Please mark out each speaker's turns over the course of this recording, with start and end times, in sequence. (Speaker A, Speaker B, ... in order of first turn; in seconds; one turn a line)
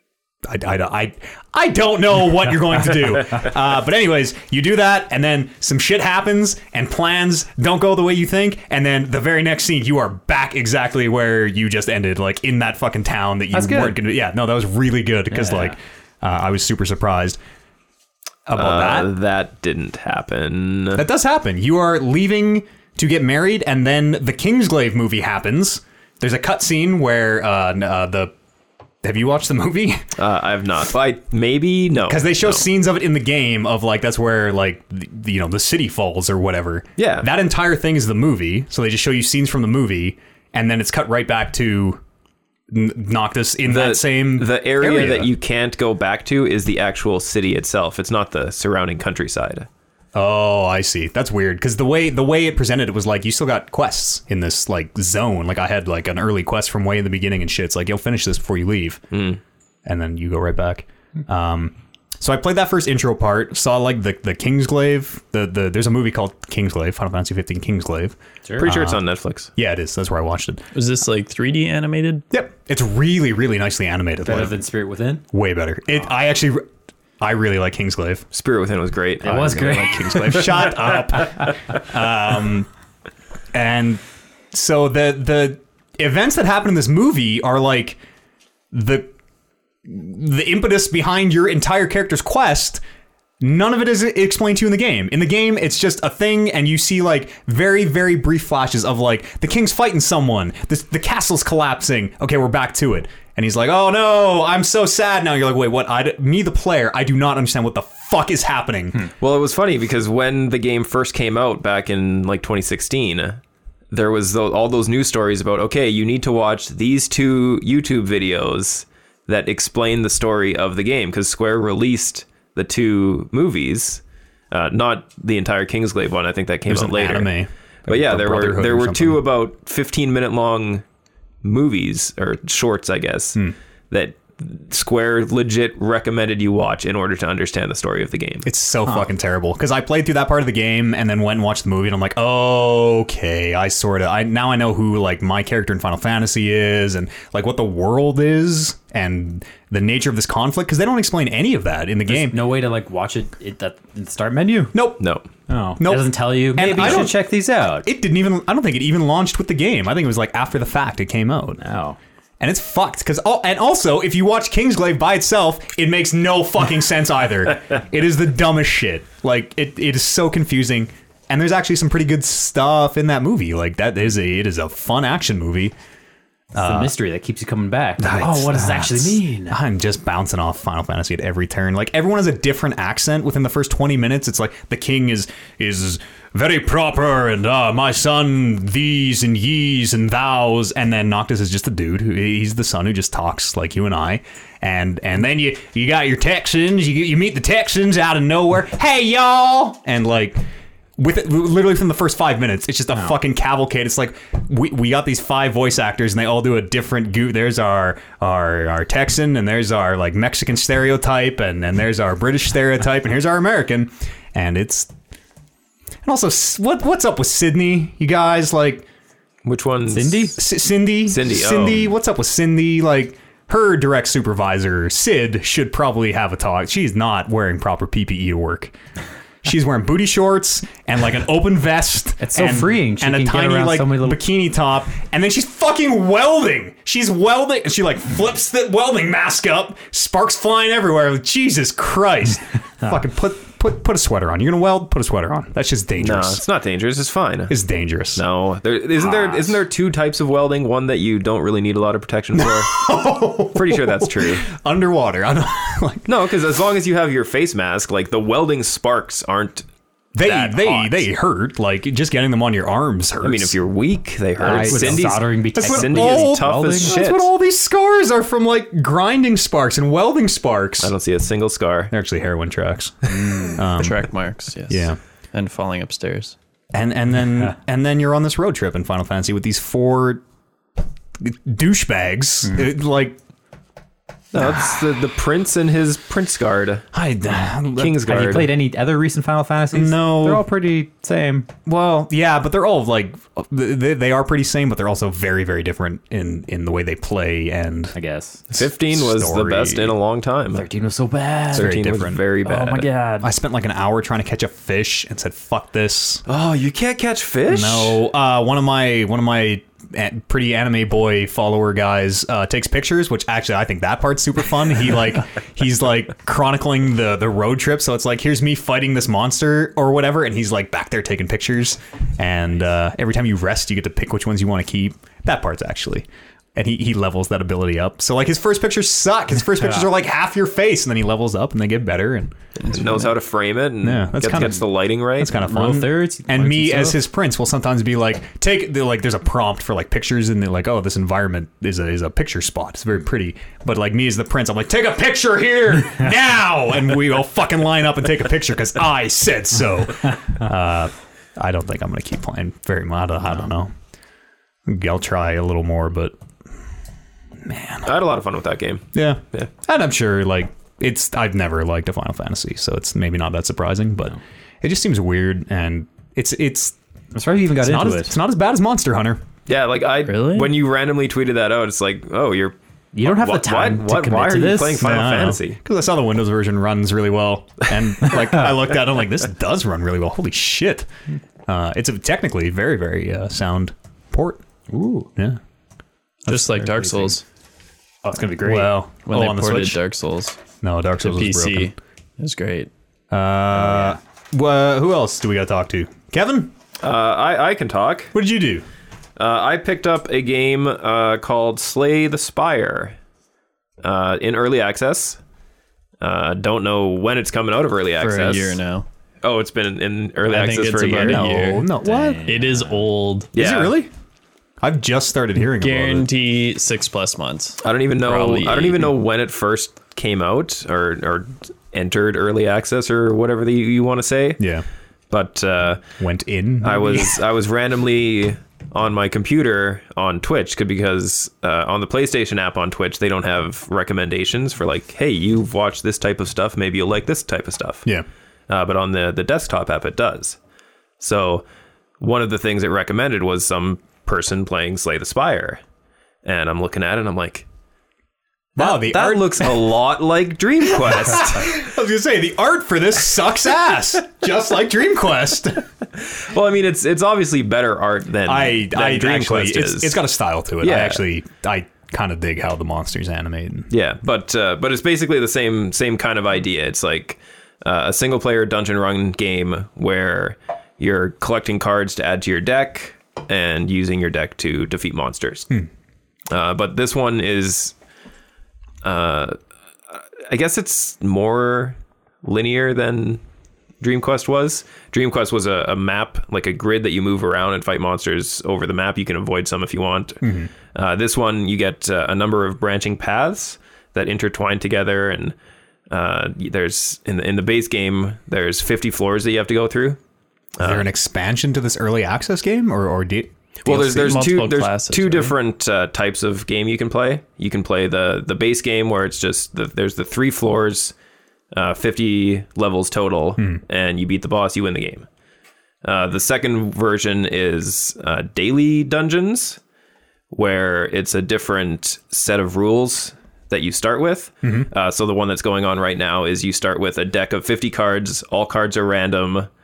Speaker A: 0.4-17.4
Speaker B: 13.5-14.0
Speaker B: 15.3-15.8
Speaker A: 18.5-19.1
Speaker C: 18.5-21.0
Speaker A: 20.9-28.3
Speaker A: 29.0-30.0
Speaker C: 30.2-32.6
Speaker A: 32.0-42.0
Speaker C: 37.0-37.3
Speaker A: 42.7-45.3
Speaker C: 43.7-49.7
Speaker A: 50.1-59.0
Speaker C: 59.1-59.4
Speaker A: 59.9-69.0
Speaker C: 68.6-69.5
Speaker A: 69.5-70.6
Speaker D: 70.7-72.2
Speaker A: 72.3-74.6
Speaker B: 74.2-75.2
Speaker A: 75.3-76.6
Speaker A: 77.2-78.2
Speaker C: 78.3-80.5
Speaker B: 79.2-80.7
Speaker A: 79.4-82.7
Speaker A: 83.5-84.0
Speaker A: 84.5-88.0
Speaker A: 88.7-89.1
Speaker A: 89.8-92.8
Speaker A: 93.4-109.1
Speaker C: 109.2-113.4
Speaker C: 113.9-127.3
Speaker A: 126.7-129.2
Speaker C: 127.9-130.8
Speaker C: 131.4-138.5
Speaker A: 138.4-152.4
Speaker B: 152.1-154.8
Speaker A: 154.7-155.1
Speaker C: 155.0-155.3
Speaker B: 155.5-157.8
Speaker A: 155.8-161.6
Speaker C: 156.8-157.1
Speaker B: 161.6-162.0
Speaker A: 162.4-175.7
Speaker A: 176.5-176.9
Speaker B: 176.6-179.6
Speaker A: 178.0-200.4
Speaker A: 201.0-214.9
Speaker A: 216.0-218.9
Speaker C: 219.4-220.4
Speaker B: 219.9-220.4
Speaker A: 220.4-228.7
Speaker C: 221.0-221.9
Speaker A: 229.4-246.4
Speaker B: 232.2-234.2
Speaker C: 246.0-247.5
Speaker A: 247.5-248.2
Speaker C: 248.2-252.8
Speaker A: 249.0-249.6
Speaker A: 252.3-256.1
Speaker C: 253.5-254.4
Speaker C: 256.1-259.6
Speaker A: 260.1-263.5
Speaker C: 260.2-261.1
Speaker C: 263.2-267.3
Speaker B: 264.4-267.0
Speaker A: 264.4-270.9
Speaker C: 270.8-271.9
Speaker A: 271.9-274.1
Speaker B: 273.1-273.6
Speaker D: 273.8-276.4
Speaker A: 274.7-275.0
Speaker A: 276.7-280.2
Speaker A: 281.2-283.2
Speaker C: 284.3-286.8
Speaker A: 284.4-284.8
Speaker A: 286.9-288.4
Speaker C: 287.8-288.6
Speaker B: 288.0-291.5
Speaker A: 289.7-290.4
Speaker A: 291.6-297.9
Speaker B: 297.9-298.4
Speaker A: 298.5-299.9
Speaker C: 298.5-300.6
Speaker B: 300.5-301.8
Speaker C: 301.5-302.9
Speaker A: 301.5-302.2
Speaker B: 302.4-303.3
Speaker A: 303.2-306.2
Speaker C: 306.3-308.0
Speaker A: 307.5-332.3
Speaker D: 332.6-333.1
Speaker C: 332.7-335.4
Speaker A: 333.8-334.6
Speaker A: 335.2-353.7
Speaker B: 335.4-337.0
Speaker A: 354.6-356.1
Speaker A: 357.4-357.9
Speaker C: 357.8-359.5
Speaker A: 358.9-366.7
Speaker B: 367.1-368.1
Speaker A: 367.6-369.2
Speaker C: 369.5-375.6
Speaker D: 370.1-370.5
Speaker B: 372.9-374.8
Speaker A: 374.8-380.9
Speaker A: 381.5-384.4
Speaker B: 384.7-385.1
Speaker D: 386.2-387.2
Speaker B: 386.6-387.1
Speaker B: 388.0-388.8
Speaker A: 388.4-389.8
Speaker D: 389.1-390.4
Speaker A: 390.6-391.7
Speaker D: 391.0-392.7
Speaker A: 393.1-396.5
Speaker B: 393.5-394.0
Speaker C: 396.8-398.1
Speaker A: 398.1-398.6
Speaker C: 399.2-402.9
Speaker C: 403.8-405.2
Speaker C: 406.0-408.6
Speaker A: 408.0-408.4
Speaker D: 408.1-408.9
Speaker C: 409.2-411.3
Speaker D: 410.3-411.7
Speaker A: 411.0-412.2
Speaker B: 411.8-412.8
Speaker D: 412.2-413.3
Speaker C: 413.3-413.8
Speaker A: 413.3-413.9
Speaker A: 414.6-416.1
Speaker D: 415.4-418.9
Speaker C: 417.6-424.4
Speaker A: 424.4-424.6
Speaker C: 425.1-425.8
Speaker A: 426.0-427.2
Speaker C: 426.6-437.9
Speaker C: 438.5-440.4
Speaker C: 441.0-441.4
Speaker C: 442.0-445.6
Speaker C: 446.2-447.4
Speaker A: 448.6-449.6
Speaker C: 448.6-451.6
Speaker A: 450.7-455.6
Speaker C: 456.0-460.0
Speaker A: 458.2-463.7
Speaker C: 460.6-461.0
Speaker C: 463.7-475.5
Speaker C: 476.3-477.7
Speaker C: 478.8-479.4
Speaker C: 479.9-483.2
Speaker C: 483.8-490.2
Speaker A: 490.2-490.5
Speaker C: 490.7-495.3
Speaker C: 495.9-500.0
Speaker C: 500.6-500.9
Speaker A: 500.6-504.2
Speaker C: 503.6-510.9
Speaker D: 503.7-505.3
Speaker C: 511.5-515.1
Speaker C: 515.8-519.6
Speaker C: 520.3-529.5
Speaker A: 524.4-524.7